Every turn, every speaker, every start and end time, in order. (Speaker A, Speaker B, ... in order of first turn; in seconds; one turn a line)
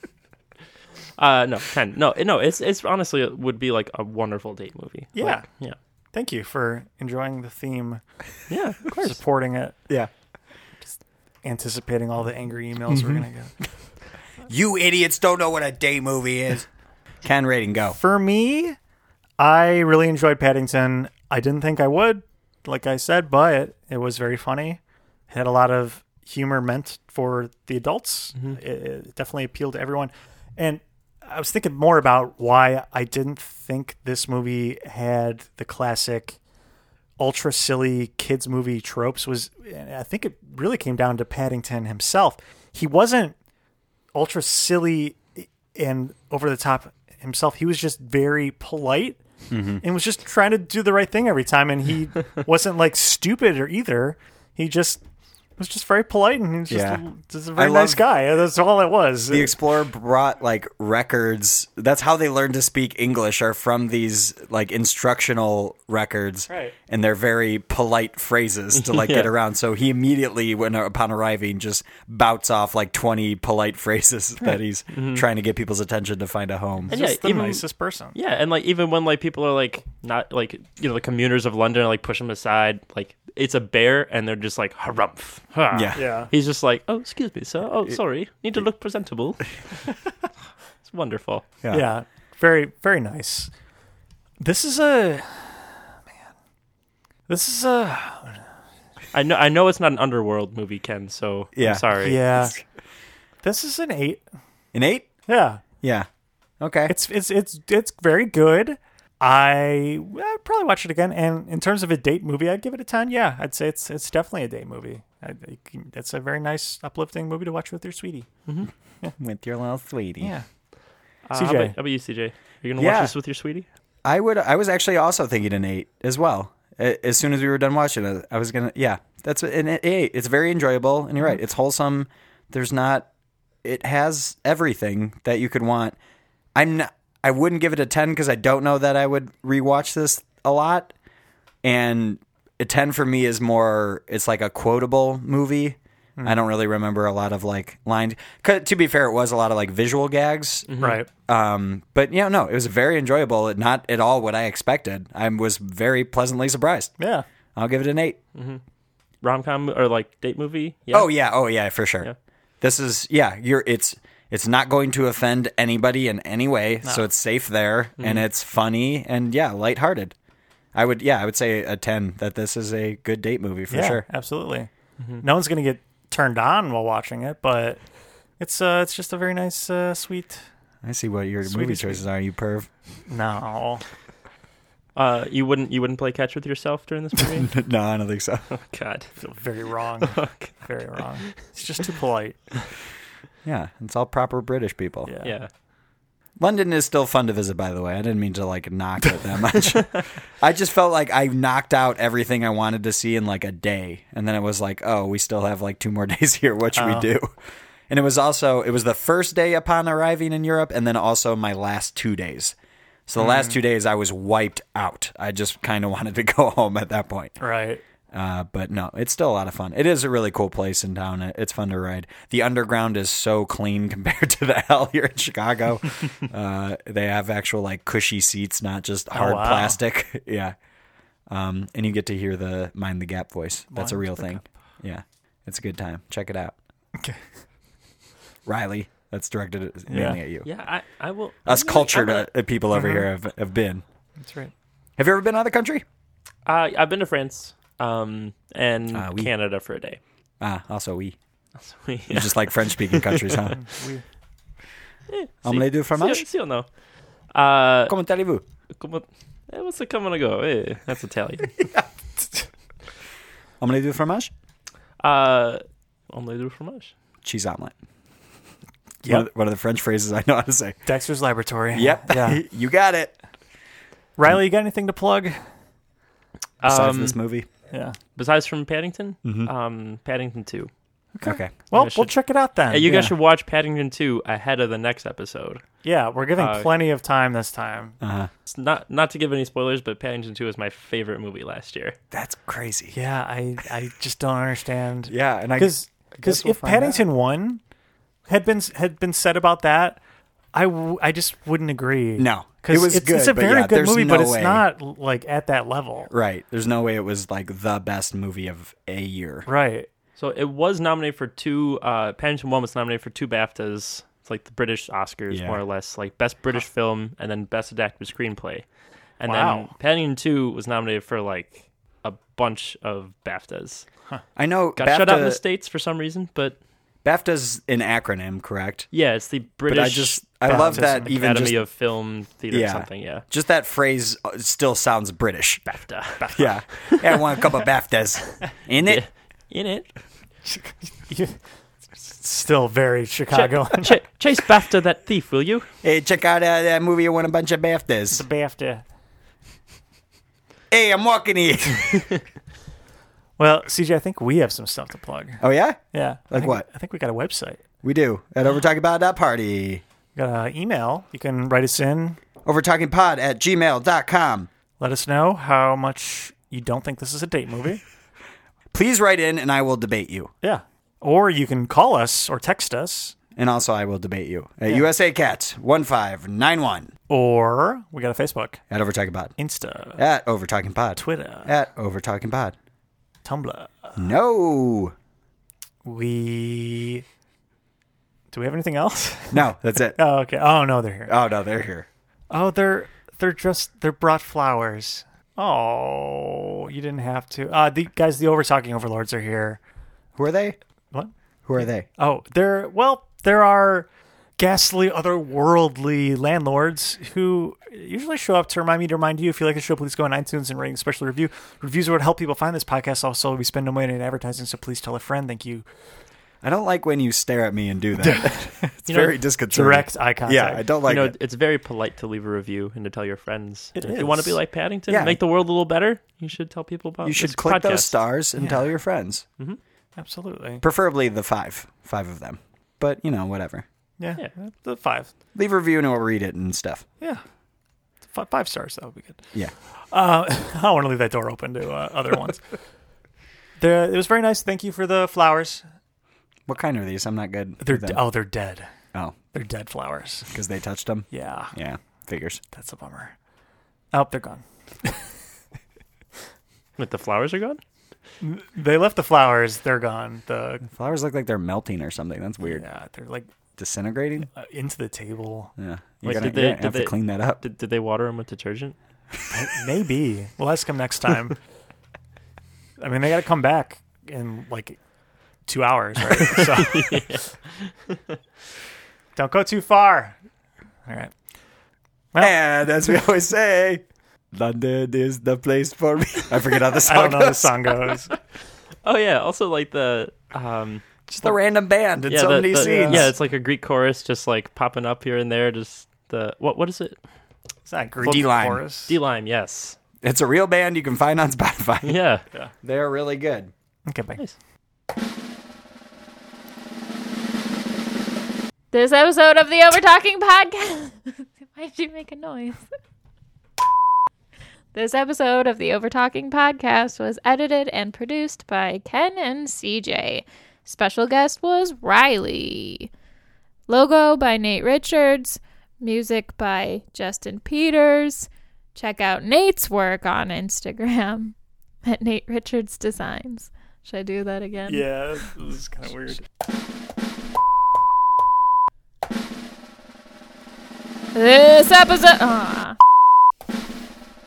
Speaker A: 1.2-5.8
Speaker B: 5.2-5.5
Speaker B: 6.1-8.0
Speaker A: 8.5-9.1
Speaker B: 8.9-9.8
Speaker B: 11.4-13.6
Speaker C: 14.5-16.7
Speaker C: 17.2-18.0
Speaker B: 18.0-18.8
Speaker B: 19.4-36.4
Speaker B: 37.2-43.4
Speaker B: 44.1-49.2
Speaker C: 49.5-49.8
Speaker B: 49.8-55.0
Speaker B: 55.6-59.6
Speaker C: 56.7-57.0
Speaker C: 57.6-58.0
Speaker C: 59.3-76.9
Speaker B: 66.5-66.8
Speaker A: 68.8-69.3
Speaker A: 74.9-75.2
Speaker B: 76.9-78.2
Speaker A: 76.9-89.5
Speaker C: 85.7-86.0
Speaker B: 86.0-86.3
Speaker A: 90.8-91.5
Speaker C: 91.6-91.9
Speaker B: 91.7-93.5
Speaker B: 94.4-95.8
Speaker B: 97.3-98.4
Speaker A: 99.1-102.3
Speaker C: 101.5-102.4
Speaker B: 102.0-102.5
Speaker B: 103.4-104.2
Speaker C: 104.7-105.1
Speaker B: 105.3-105.6
Speaker C: 105.8-106.1
Speaker C: 106.6-107.0
Speaker B: 106.9-118.3
Speaker C: 119.2-120.3
Speaker B: 120.2-120.5
Speaker A: 121.3-123.7
Speaker B: 121.3-121.8
Speaker C: 122.8-123.1
Speaker C: 124.0-133.1
Speaker C: 133.6-136.0
Speaker C: 136.6-140.9
Speaker C: 141.6-156.9
Speaker A: 150.7-151.0
Speaker B: 150.8-151.1
Speaker B: 157.0-157.2
Speaker C: 157.6-158.2
Speaker A: 158.3-158.6
Speaker A: 159.2-161.1
Speaker C: 160.9-162.1
Speaker C: 162.6-170.1
Speaker A: 168.0-168.2
Speaker C: 170.8-174.1
Speaker B: 173.7-177.8
Speaker B: 178.4-180.4
Speaker C: 180.8-182.7
Speaker B: 181.4-182.0
Speaker B: 183.1-183.8
Speaker A: 185.0-187.6
Speaker C: 187.4-188.5
Speaker A: 188.6-189.1
Speaker B: 189.2-192.4
Speaker A: 190.0-190.7
Speaker C: 193.4-195.1
Speaker B: 195.1-195.3
Speaker A: 195.2-195.5
Speaker C: 196.4-207.3
Speaker B: 206.8-207.1
Speaker C: 207.9-212.6
Speaker C: 213.1-217.4
Speaker B: 217.4-217.8
Speaker C: 218.1-230.6
Speaker B: 229.1-229.8
Speaker C: 231.3-236.5
Speaker B: 233.7-234.4
Speaker C: 238.5-240.5
Speaker B: 239.9-240.2
Speaker A: 240.4-242.3
Speaker C: 241.5-243.8
Speaker B: 242.7-243.1
Speaker B: 244.2-244.5
Speaker C: 245.0-245.8
Speaker A: 246.5-250.0
Speaker C: 248.9-249.3
Speaker C: 250.4-251.2
Speaker A: 251.6-253.4
Speaker C: 252.1-253.6
Speaker B: 253.5-254.0
Speaker A: 255.1-256.7
Speaker C: 255.4-256.2
Speaker A: 257.3-258.0
Speaker C: 257.9-258.4
Speaker A: 258.8-261.6
Speaker C: 261.6-261.9
Speaker C: 263.6-264.3
Speaker A: 265.0-266.9
Speaker C: 267.2-267.7
Speaker C: 269.0-270.8
Speaker B: 270.9-272.4
Speaker C: 271.7-273.1
Speaker B: 274.2-275.4
Speaker A: 276.6-277.2
Speaker C: 276.6-277.5
Speaker B: 277.7-278.0
Speaker A: 278.1-280.7
Speaker C: 279.2-279.5
Speaker B: 281.1-283.1
Speaker C: 281.2-281.5
Speaker A: 281.7-282.1
Speaker A: 282.7-285.6
Speaker B: 285.8-288.0
Speaker A: 286.4-286.7
Speaker C: 288.0-288.3
Speaker A: 288.5-292.0
Speaker C: 292.1-293.0
Speaker B: 292.9-297.6
Speaker C: 295.1-297.1
Speaker B: 298.3-300.0
Speaker B: 300.5-306.1
Speaker C: 302.2-304.7
Speaker C: 306.1-309.5
Speaker B: 309.5-309.9
Speaker A: 310.2-318.7
Speaker C: 315.3-315.6
Speaker A: 319.2-323.9
Speaker B: 319.2-319.7
Speaker C: 324.4-325.4
Speaker A: 324.8-326.6
Speaker C: 327.0-328.9
Speaker A: 328.9-333.2
Speaker C: 329.7-331.6
Speaker B: 330.4-331.2
Speaker C: 332.5-335.6
Speaker A: 335.7-337.0
Speaker C: 336.3-339.0
Speaker A: 338.8-339.9
Speaker B: 340.5-341.4
Speaker B: 342.0-344.0
Speaker A: 343.3-345.7
Speaker C: 345.8-348.2
Speaker B: 348.1-348.8
Speaker C: 350.7-352.1
Speaker B: 353.4-355.4
Speaker C: 355.4-356.6
Speaker B: 355.9-357.6
Speaker C: 357.8-359.8
Speaker B: 360.1-362.2
Speaker C: 362.4-364.5
Speaker B: 364.8-367.8
Speaker C: 368.7-370.3
Speaker B: 370.4-373.1
Speaker C: 373.4-376.9
Speaker B: 377.1-378.6
Speaker C: 378.7-379.3
Speaker B: 379.4-380.0
Speaker C: 380.0-382.6
Speaker B: 381.0-381.5
Speaker B: 383.2-384.0
Speaker C: 384.0-384.9
Speaker B: 385.9-387.1
Speaker B: 388.3-391.1
Speaker C: 389.3-390.0
Speaker C: 391.1-391.9
Speaker B: 392.3-399.6
Speaker C: 400.2-400.6
Speaker C: 401.4-401.9
Speaker B: 402.0-415.7
Speaker C: 416.4-421.1
Speaker B: 418.0-418.7
Speaker A: 418.9-419.2
Speaker B: 419.5-420.7
Speaker A: 420.9-427.9
Speaker B: 423.8-424.4
Speaker C: 424.9-425.2
Speaker C: 427.0-429.2
Speaker B: 428.4-428.6
Speaker B: 430.0-430.6
Speaker C: 430.6-433.6
Speaker B: 434.0-435.1
Speaker C: 435.4-436.9
Speaker B: 438.0-439.2
Speaker B: 439.9-442.4
Speaker B: 443.6-445.6
Speaker C: 446.5-448.0
Speaker B: 447.6-448.7
Speaker B: 449.3-450.3
Speaker C: 450.3-452.4
Speaker B: 451.1-451.5
Speaker B: 452.5-453.1
Speaker B: 453.9-455.1
Speaker A: 456.8-457.6
Speaker B: 458.2-460.6
Speaker C: 460.7-462.6
Speaker B: 462.4-463.3
Speaker C: 463.6-464.3
Speaker B: 464.3-465.5
Speaker C: 465.6-467.4
Speaker A: 466.0-468.8
Speaker B: 469.3-471.4
Speaker B: 472.8-474.8
Speaker B: 475.5-477.0
Speaker A: 476.2-478.0
Speaker B: 479.2-480.2
Speaker B: 480.9-481.1
Speaker C: 482.2-487.7
Speaker B: 486.8-488.1
Speaker A: 488.9-491.3
Speaker C: 491.1-493.1
Speaker A: 492.1-497.0
Speaker B: 492.5-493.1
Speaker B: 497.7-498.9
Speaker C: 498.0-498.6
Speaker A: 498.0-498.3
Speaker A: 498.9-499.8
Speaker C: 500.0-502.0
Speaker A: 501.8-502.2
Speaker C: 502.6-503.5
Speaker B: 503.9-504.2
Speaker D: 508.7-512.6
Speaker D: 514.7-522.9
Speaker D: 523.7-531.3
Speaker D: 531.9-534.9
Speaker B: 534.7-536.2
Speaker D: 541.1-542.8